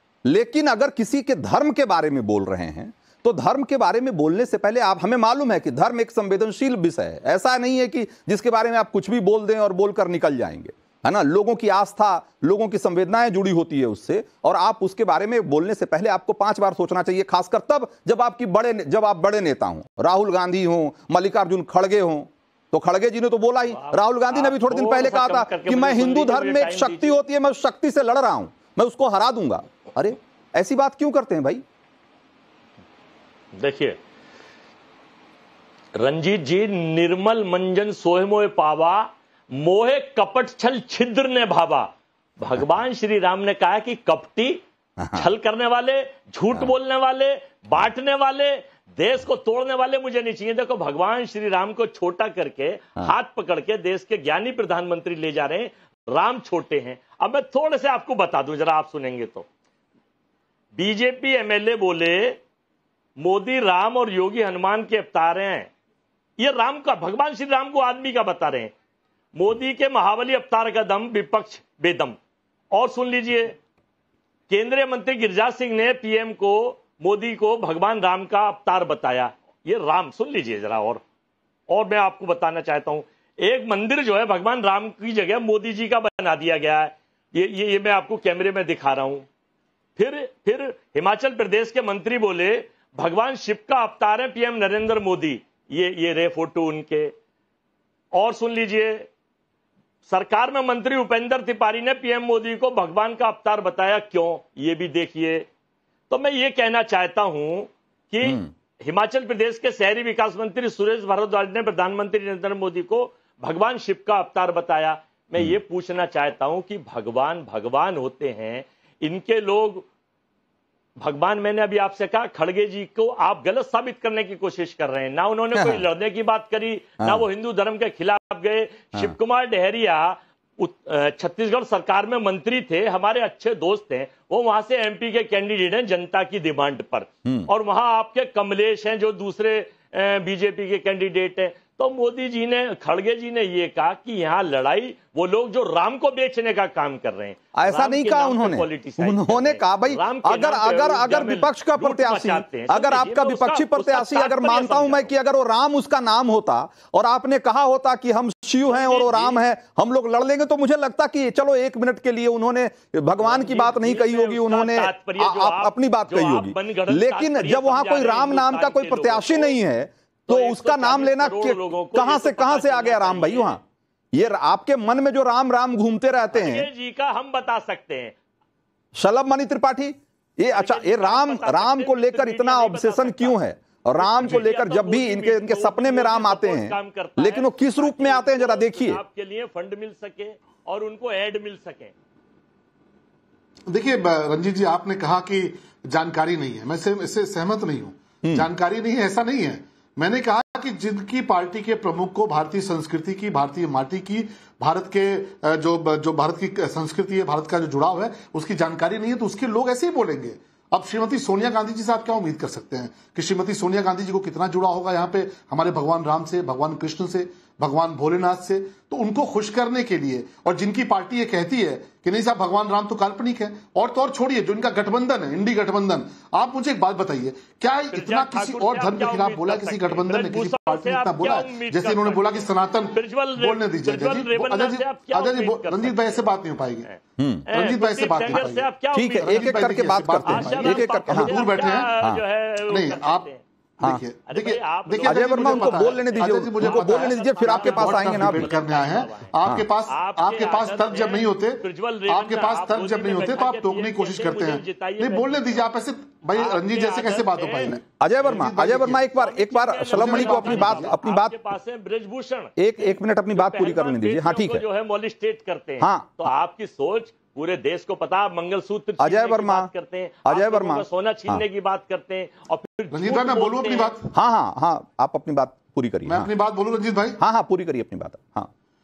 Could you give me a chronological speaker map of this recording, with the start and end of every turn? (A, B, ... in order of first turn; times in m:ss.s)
0:00.2-0:31.6 A
0:23.7-0:27.2 B
0:33.5-0:34.0 B
0:35.9-0:44.6 B
0:45.0-0:45.3 A
0:45.1-0:59.5 B
1:00.7-1:02.4 B
1:03.2-1:05.7 B
1:06.4-1:08.7 B
1:09.4-1:12.2 B
1:12.7-1:13.6 B
1:14.5-1:21.0 B
1:21.7-1:29.2 B
1:30.0-1:37.1 B
1:38.1-1:39.1 B
1:40.1-1:45.5 B
1:46.1-1:59.8 B
2:01.0-2:35.1 B
2:05.5-2:05.8 A
2:27.5-2:53.6 A
2:38.6-2:39.4 B
2:43.2-2:49.6 B
2:50.3-2:53.6 B
2:54.1-2:56.7 A
2:56.3-2:58.1 B
2:59.0-3:09.0 A
3:00.5-3:03.4 B
3:03.9-3:11.9 B
3:13.7-3:56.9 C
3:47.9-3:56.2 B
3:56.8-4:03.4 B
3:57.2-3:57.5 A
3:57.5-4:01.9 C
3:58.3-4:02.2 A
4:02.6-4:19.1 C
4:04.3-4:09.3 B
4:05.0-4:08.5 A
4:09.9-4:15.6 B
4:16.3-4:34.0 B
4:18.0-4:21.4 A
4:19.9-4:20.9 C
4:22.6-4:24.6 A
4:25.8-4:26.3 A
4:29.0-4:29.7 A
4:30.2-4:31.4 A
4:32.9-4:34.1 C
4:34.1-4:36.3 A
4:36.0-4:37.2 C
4:37.2-4:38.5 A